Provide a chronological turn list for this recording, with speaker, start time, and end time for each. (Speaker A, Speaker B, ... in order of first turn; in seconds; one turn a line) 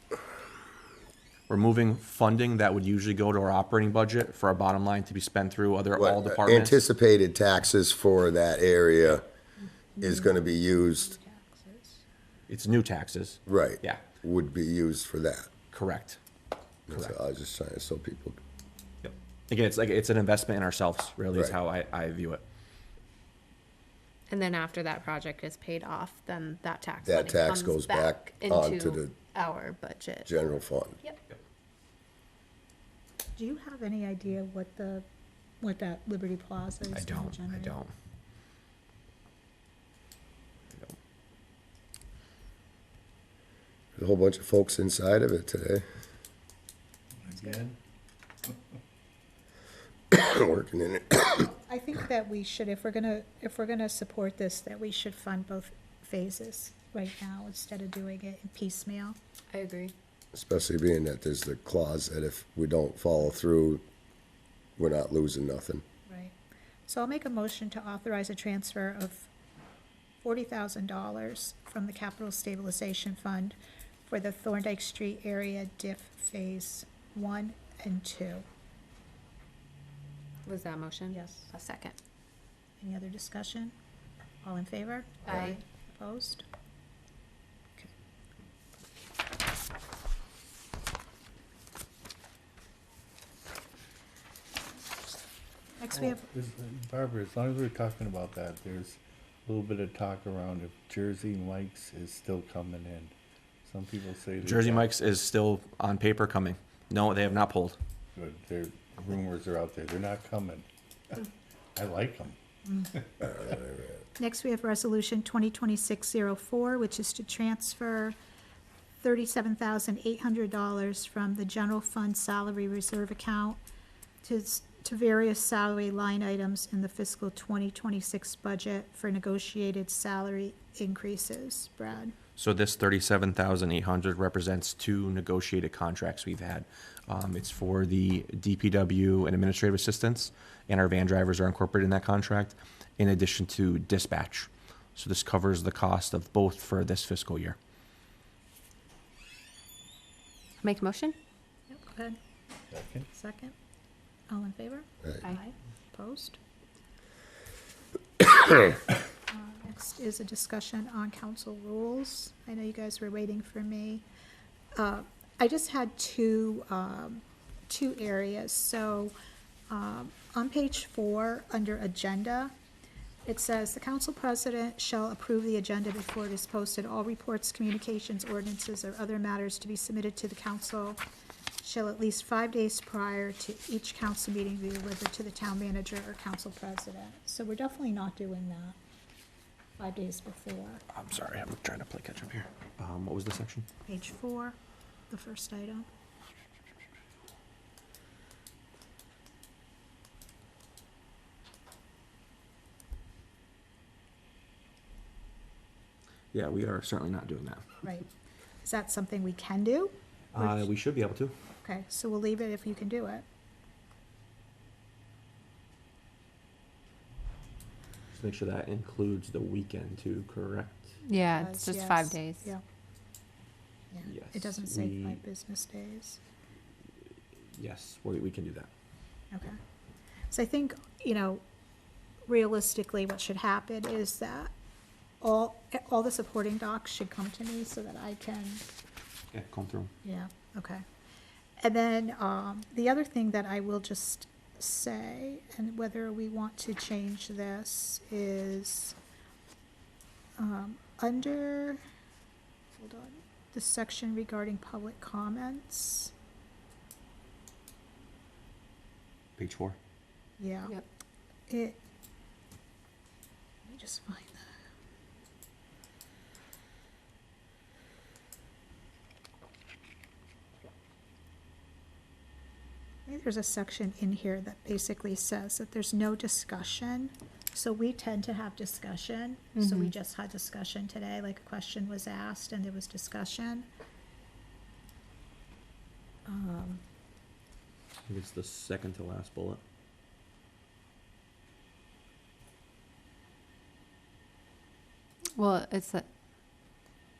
Speaker A: 1.5-6.8
Speaker B: 6.0-9.2
Speaker B: 10.0-11.2
Speaker C: 10.0-12.0
Speaker A: 12.5-14.0
Speaker B: 13.5-15.5
Speaker A: 15.7-16.2
Speaker B: 16.9-18.4
Speaker A: 16.9-17.1
Speaker A: 19.0-22.4
Speaker D: 24.3-30.3
Speaker B: 27.0-29.1
Speaker B: 30.2-30.9
Speaker C: 33.4-35.0
Speaker C: 35.6-37.8
Speaker A: 36.9-37.9
Speaker B: 44.0-45.8
Speaker E: 47.2-47.8
Speaker C: 47.3-47.6
Speaker B: 50.1-51.5
Speaker C: 51.4-59.2
Speaker D: 59.5-59.9
Speaker B: 60.3-63.8
Speaker B: 64.8-65.8
Speaker C: 66.1-66.3
Speaker C: 66.9-69.3
Speaker C: 70.2-78.5
Speaker D: 80.5-82.0
Speaker C: 81.1-81.5
Speaker C: 82.8-83.7
Speaker C: 84.4-86.4
Speaker D: 85.2-85.6
Speaker C: 95.8-96.2
Speaker E: 95.9-103.1
Speaker E: 103.7-104.9
Speaker A: 104.4-107.8
Speaker E: 108.2-112.4
Speaker C: 112.6-112.9
Speaker B: 113.2-113.9
Speaker C: 114.2-118.1
Speaker C: 119.0-123.6
Speaker C: 124.2-132.1
Speaker A: 132.4-147.6
Speaker D: 150.6-151.2
Speaker C: 151.7-152.2
Speaker E: 152.7-153.1
Speaker C: 153.1-153.5
Speaker C: 154.3-156.4
Speaker C: 159.3-164.0
Speaker C: 164.8-169.1
Speaker C: 169.7-172.5
Speaker C: 173.2-181.0
Speaker C: 181.6-188.8
Speaker C: 189.8-190.8
Speaker A: 190.9-193.7
Speaker C: 193.9-194.6
Speaker C: 195.1-195.9
Speaker A: 206.3-207.8
Speaker C: 207.8-208.1
Speaker C: 208.6-210.7
Speaker A: 210.3-211.3
Speaker C: 211.6-213.2
Speaker A: 218.1-221.0
Speaker D: 221.1-222.4
Speaker C: 221.3-222.6
Speaker C: 223.9-226.2
Speaker A: 224.0-225.2
Speaker A: 227.6-228.7
Speaker C: 229.3-229.6
Speaker C: 230.3-231.4
Speaker C: 232.3-234.5
Speaker C: 235.2-238.6
Speaker A: 239.3-239.9
Speaker C: 240.0-240.8
Speaker C: 241.6-248.9
Speaker C: 250.4-251.8
Speaker C: 252.7-256.1
Speaker A: 259.4-259.8
Speaker C: 260.4-260.7
Speaker C: 261.5-261.8
Speaker C: 263.6-264.4
Speaker C: 273.1-283.7
Speaker D: 279.6-279.9
Speaker C: 286.2-286.8
Speaker A: 288.1-289.6
Speaker D: 295.3-296.1